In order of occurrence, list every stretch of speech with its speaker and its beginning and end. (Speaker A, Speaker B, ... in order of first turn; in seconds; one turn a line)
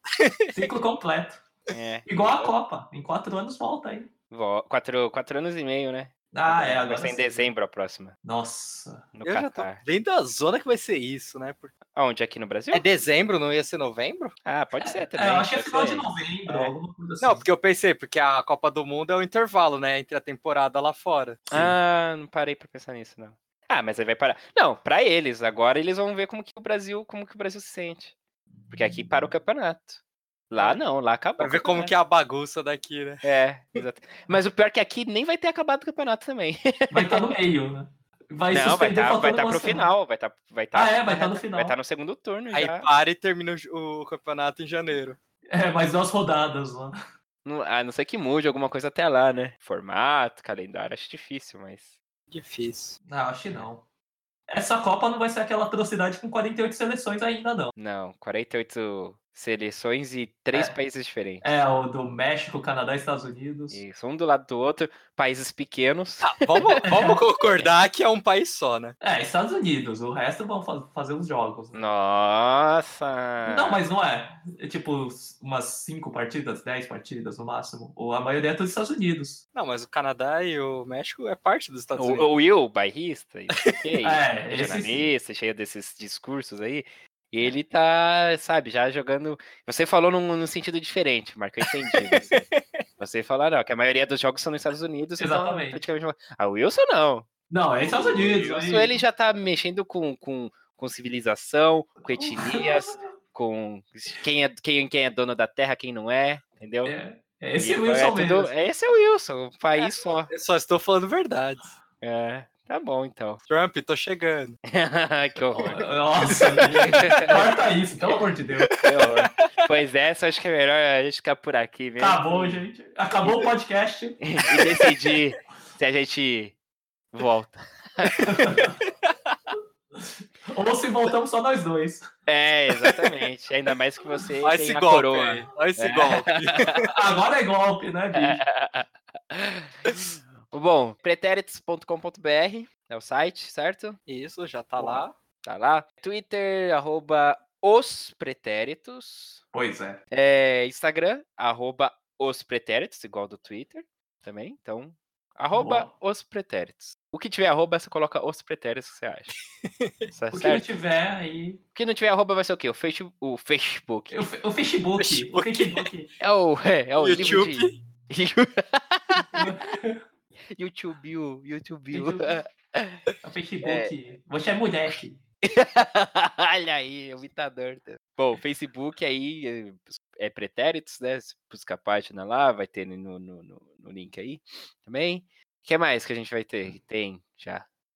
Speaker A: 0.2-0.5
Speaker B: 0.5-1.4
Speaker C: 1.7-2.5
Speaker B: 2.1-4.1
Speaker C: 4.3-8.1
Speaker B: 6.3-7.4
Speaker B: 8.2-9.1
Speaker C: 9.1-9.8
Speaker A: 9.2-11.7
Speaker C: 11.9-12.8
Speaker A: 12.7-14.3
Speaker C: 14.4-16.6
Speaker B: 14.8-17.4
Speaker A: 16.5-21.4
Speaker B: 21.5-21.7
Speaker C: 21.5-28.1
Speaker C: 28.7-31.9
Speaker A: 31.4-33.2
Speaker C: 33.2-37.3
Speaker B: 36.9-39.9
Speaker C: 38.5-42.9
Speaker B: 40.7-41.7
Speaker A: 42.5-45.2
Speaker B: 45.5-47.0
Speaker C: 47.4-51.9
Speaker A: 52.3-53.0
Speaker B: 53.0-53.8
Speaker B: 54.5-57.7
Speaker C: 57.7-61.4
Speaker B: 61.4-63.8
Speaker C: 63.7-67.7
Speaker A: 66.2-68.9
Speaker B: 66.6-67.2
Speaker B: 69.0-71.9
Speaker C: 71.7-73.8
Speaker B: 73.4-79.4
Speaker A: 79.5-82.3
Speaker C: 82.0-92.5
Speaker A: 83.6-83.9
Speaker B: 84.0-85.0
Speaker A: 91.9-92.8
Speaker C: 93.0-106.9
Speaker B: 95.2-95.8
Speaker B: 97.5-99.0
Speaker B: 102.1-103.0
Speaker B: 106.8-108.5
Speaker C: 107.6-110.3
Speaker A: 109.7-111.7
Speaker C: 112.0-113.4
Speaker A: 113.5-114.6
Speaker C: 114.7-117.5
Speaker B: 115.5-118.8
Speaker A: 116.2-117.1
Speaker A: 118.6-119.7
Speaker C: 118.8-122.6
Speaker B: 122.0-124.2
Speaker C: 124.2-126.5
Speaker A: 124.6-125.1
Speaker C: 127.1-128.3
Speaker A: 128.0-129.1
Speaker B: 128.2-128.8
Speaker B: 129.9-132.1
Speaker C: 132.3-136.8
Speaker A: 134.4-136.8
Speaker B: 136.8-138.4
Speaker C: 138.1-144.0
Speaker A: 144.1-145.1
Speaker C: 144.8-149.4
Speaker B: 149.5-150.0
Speaker C: 150.1-159.3
Speaker B: 155.5-155.9
Speaker A: 159.6-160.1
Speaker C: 160.1-160.6
Speaker B: 160.3-161.6
Speaker C: 161.7-164.2
Speaker B: 164.1-166.1
Speaker A: 164.9-165.9
Speaker C: 166.2-169.5
Speaker A: 167.0-167.8
Speaker B: 169.3-170.0
Speaker C: 170.5-173.0
Speaker B: 171.9-172.4
Speaker B: 173.2-175.2
Speaker C: 173.6-173.9
Speaker C: 175.4-187.6